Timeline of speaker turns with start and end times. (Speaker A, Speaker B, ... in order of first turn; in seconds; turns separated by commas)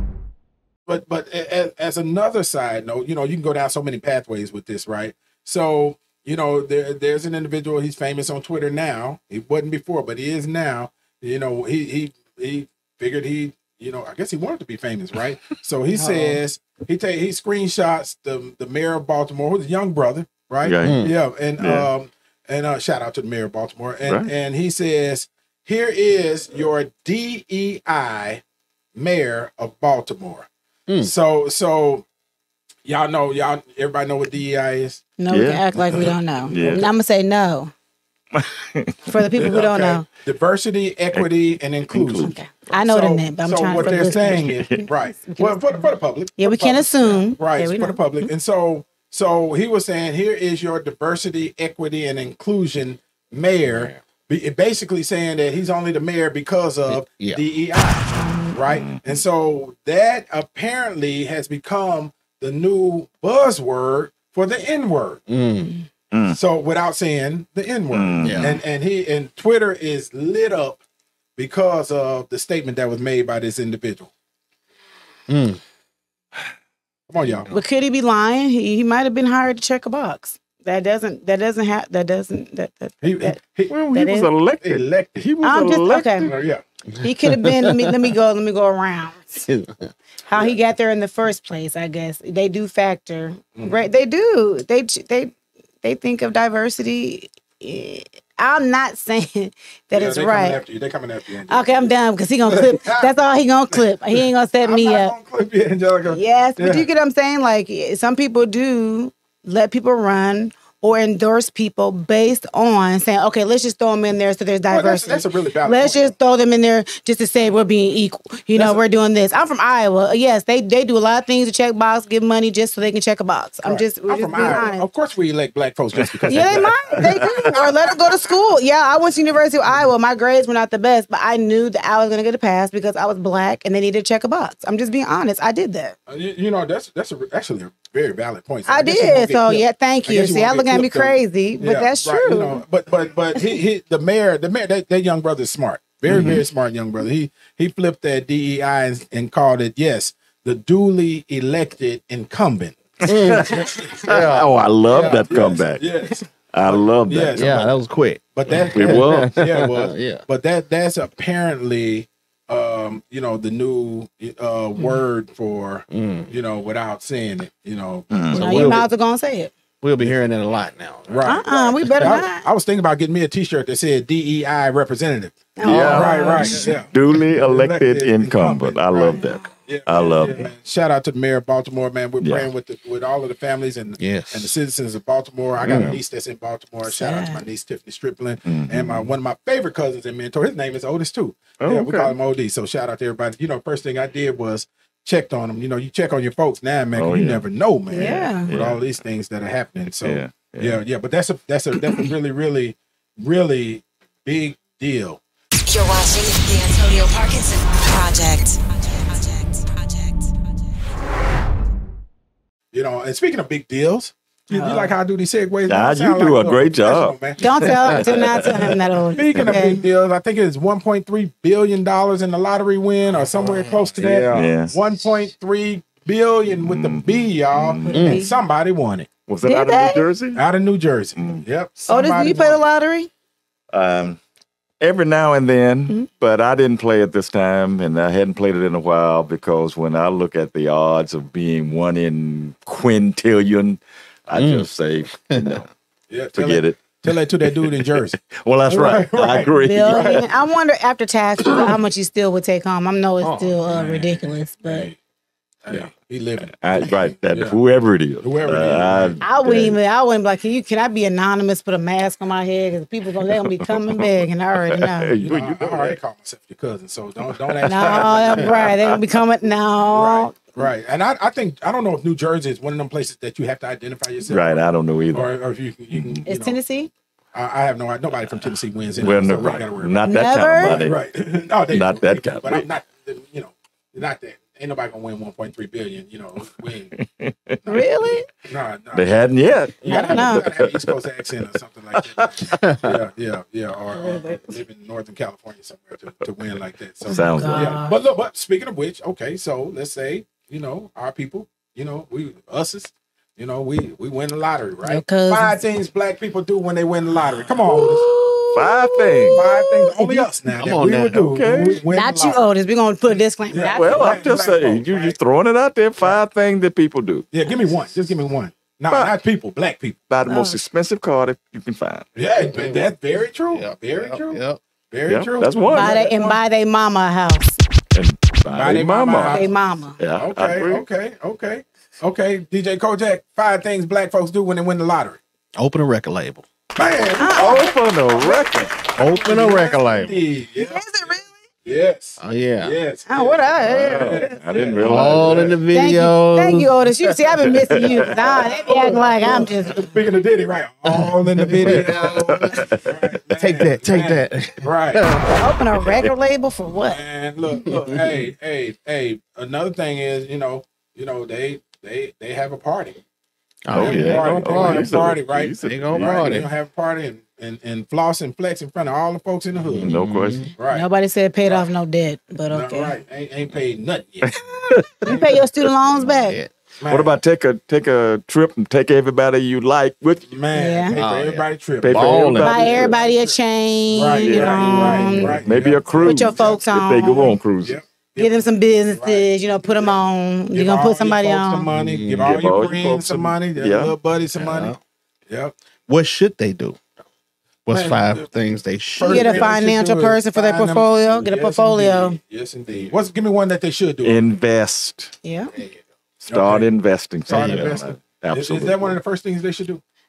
Speaker A: 0.9-28.4, Speaker B: 20.6-21.9, Speaker C: 20.8-21.1, Speaker B: 24.1-24.3, Speaker A: 28.9-30.5, Speaker A: 31.0-32.0, Speaker A: 32.9-35.0, Speaker D: 35.2-37.7, Speaker B: 35.3-36.9, Speaker A: 35.9-36.8, Speaker B: 38.3-39.6, Speaker D: 39.1-40.0, Speaker A: 39.4-65.2, Speaker B: 41.9-42.8, Speaker D: 42.2-45.8, Speaker B: 43.7-44.9, Speaker D: 46.4-48.3, Speaker C: 53.6-54.0, Speaker C: 56.9-57.4, Speaker D: 58.2-58.5, Speaker B: 58.6-59.2, Speaker C: 65.3-65.7, Speaker B: 66.1-66.4, Speaker A: 66.3-70.8, Speaker B: 67.9-68.6, Speaker C: 68.2-68.6, Speaker A: 71.4-74.1, Speaker C: 75.3-75.6, Speaker A: 77.1-77.5, Speaker C: 77.2-77.6, Speaker D: 77.5-83.4, Speaker A: 83.0-83.8, Speaker B: 83.7-86.3, Speaker D: 83.9-84.3, Speaker A: 84.6-85.3, Speaker D: 85.4-86.3, Speaker A: 86.2-86.6, Speaker C: 87.0-87.9, Speaker D: 87.0-89.5, Speaker C: 89.5-89.9, Speaker D: 90.3-100.6, Speaker A: 99.9-101.9, Speaker D: 101.5-105.1, Speaker A: 102.5-103.1, Speaker A: 103.7-106.9, Speaker D: 106.1-124.8, Speaker A: 114.7-116.1, Speaker A: 118.5-118.8, Speaker A: 123.6-127.7, Speaker B: 126.0-127.4, Speaker D: 126.3-135.9, Speaker A: 136.1-154.1, Speaker D: 138.7-142.6, Speaker B: 146.1-146.4, Speaker C: 146.1-146.4, Speaker B: 153.0-155.9, Speaker C: 153.1-154.5, Speaker A: 154.9-157.8, Speaker B: 156.5-157.5, Speaker C: 157.4-160.2, Speaker A: 158.3-168.8, Speaker B: 158.7-159.3, Speaker C: 165.9-166.3, Speaker B: 168.1-168.7, Speaker C: 168.3-168.9, Speaker D: 168.3-169.5, Speaker C: 169.8-172.1, Speaker A: 171.1-205.2, Speaker D: 171.2-172.4, Speaker D: 175.6-176.7, Speaker B: 175.6-180.4, Speaker C: 175.6-176.8, Speaker B: 182.2-182.5, Speaker C: 184.0-184.5, Speaker C: 185.6-186.0, Speaker B: 185.7-186.0, Speaker D: 186.9-187.4, Speaker B: 188.4-189.1, Speaker B: 191.6-192.1, Speaker B: 196.9-198.8, Speaker D: 197.9-198.5, Speaker B: 200.0-200.8, Speaker E: 205.6-210.7, Speaker A: 212.7-218.2, Speaker D: 214.5-214.9, Speaker B: 215.7-217.2, Speaker D: 217.4-219.8, Speaker B: 217.7-218.7, Speaker A: 219.1-229.1, Speaker C: 224.0-224.5, Speaker B: 224.3-224.7, Speaker B: 226.6-228.1, Speaker D: 227.8-228.4, Speaker C: 227.9-228.2, Speaker B: 229.3-230.4, Speaker D: 229.4-230.1, Speaker A: 230.3-232.6, Speaker B: 231.2-231.4, Speaker D: 231.9-233.1, Speaker B: 233.7-234.2, Speaker B: 234.8-245.7, Speaker C: 244.3-245.7, Speaker A: 246.1-248.1, Speaker B: 246.3-246.8, Speaker B: 247.4-250.3, Speaker A: 248.7-250.2, Speaker D: 249.3-254.9, Speaker C: 253.2-253.5, Speaker A: 253.7-254.9, Speaker A: 255.6-257.6, Speaker B: 256.6-259.8, Speaker A: 258.2-259.6, Speaker D: 259.2-265.1, Speaker B: 263.2-266.0, Speaker A: 265.2-268.7, Speaker B: 267.4-269.2, Speaker D: 267.7-270.4, Speaker A: 269.9-274.6, Speaker B: 274.3-275.4, Speaker A: 275.1-276.6, Speaker B: 275.9-276.2, Speaker D: 276.3-276.9, Speaker A: 277.3-286.9, Speaker B: 279.0-281.0, Speaker D: 280.0-280.9, Speaker B: 281.7-282.7, Speaker B: 287.0-287.6, Speaker D: 287.7-288.3, Speaker A: 288.4-289.1, Speaker B: 288.9-291.0, Speaker A: 289.8-308.1, Speaker D: 289.9-290.4, Speaker B: 291.9-292.6, Speaker C: 292.5-292.9, Speaker D: 293.9-294.5, Speaker D: 297.1-298.0, Speaker B: 297.1-297.8, Speaker D: 304.8-305.5, Speaker D: 307.7-310.2, Speaker B: 308.5-309.4, Speaker A: 309.3-312.4, Speaker C: 310.5-311.6, Speaker B: 311.3-311.8, Speaker D: 311.9-314.1, Speaker A: 313.5-315.2, Speaker B: 313.6-317.3, Speaker A: 317.3-320.0, Speaker B: 318.9-319.2, Speaker B: 320.1-322.1, Speaker D: 320.3-320.6, Speaker A: 322.1-326.4, Speaker C: 322.4-322.9, Speaker C: 323.5-324.6, Speaker B: 325.1-326.0, Speaker D: 325.7-327.6, Speaker B: 327.9-330.8, Speaker A: 328.5-329.5, Speaker D: 329.3-330.0, Speaker A: 330.2-335.2, Speaker C: 335.6-336.4, Speaker A: 336.8-340.8, Speaker D: 337.2-337.7, Speaker B: 337.2-338.8, Speaker C: 339.0-340.2, Speaker D: 340.6-341.4, Speaker A: 341.6-345.6, Speaker C: 342.2-342.7, Speaker D: 343.1-344.3, Speaker B: 343.6-345.6, Speaker C: 344.8-346.9, Speaker D: 345.7-349.9, Speaker B: 347.5-348.5, Speaker A: 348.6-355.3, Speaker C: 350.9-352.7, Speaker B: 351.8-353.1, Speaker C: 353.3-355.3, Speaker D: 355.3-357.0, Speaker B: 355.7-356.1, Speaker A: 356.9-363.0, Speaker C: 357.7-358.1, Speaker C: 363.6-366.5, Speaker B: 363.7-366.4, Speaker A: 363.7-369.9, Speaker C: 369.6-370.5, Speaker B: 369.8-370.5, Speaker A: 370.6-370.9, Speaker D: 370.7-372.9, Speaker A: 372.5-374.3, Speaker B: 374.7-375.1, Speaker D: 375.0-376.4, Speaker C: 375.9-376.5, Speaker A: 376.8-377.1, Speaker B: 376.9-380.3, Speaker A: 380.3-383.4, Speaker D: 380.5-381.0, Speaker C: 380.9-382.9, Speaker B: 381.8-382.9, Speaker D: 382.4-385.4, Speaker A: 383.9-388.3, Speaker B: 384.1-387.8, Speaker C: 384.5-385.4, Speaker D: 386.0-387.3, Speaker D: 388.2-391.7, Speaker A: 388.9-389.9, Speaker A: 390.5-394.7, Speaker C: 391.7-392.4, Speaker B: 392.2-393.9, Speaker C: 394.4-394.8, Speaker A: 395.3-395.5, Speaker C: 395.9-396.8, Speaker C: 397.7-399.5, Speaker A: 397.7-398.3, Speaker A: 398.9-404.2, Speaker D: 399.1-402.2, Speaker B: 404.0-405.1, Speaker D: 405.2-405.5, Speaker A: 405.6-406.7, Speaker B: 406.3-409.0, Speaker C: 407.3-407.9, Speaker A: 407.3-409.8